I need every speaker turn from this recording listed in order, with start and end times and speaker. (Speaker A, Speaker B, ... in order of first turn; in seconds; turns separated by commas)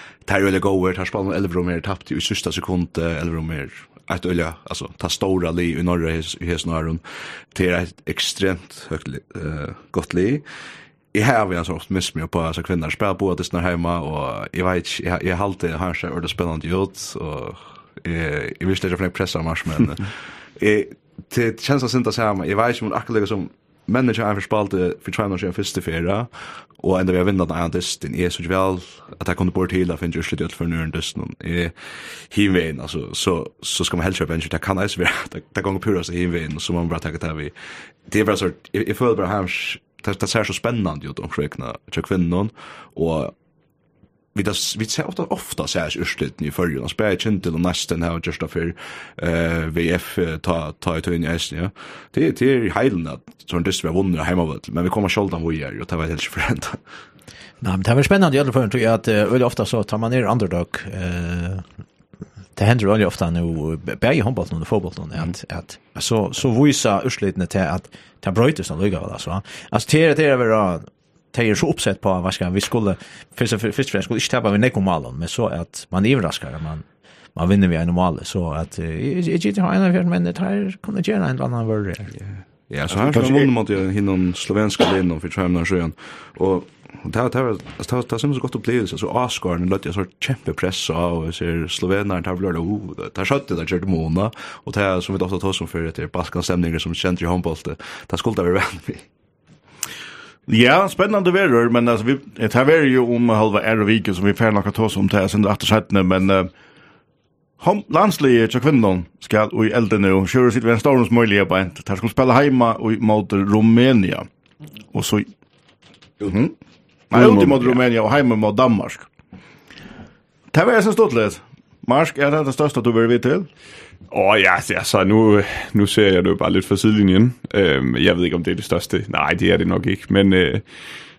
Speaker A: 0.2-7.0, Speaker A: 7.5-10.4, Speaker A: 11.1-37.5, Speaker A: 38.1-43.4, Speaker A: 44.4-56.8, Speaker B: 57.6-61.6, Speaker B: 62.6-82.2, Speaker A: 82.7-99.0, Speaker C: 83.0-83.5, Speaker C: 100.5-106.5, Speaker C: 107.6-114.3, Speaker C: 114.9-115.3, Speaker C: 116.2-116.5, Speaker C: 117.1-119.1, Speaker D: 117.1-117.8, Speaker C: 120.5-123.5, Speaker D: 124.1-130.7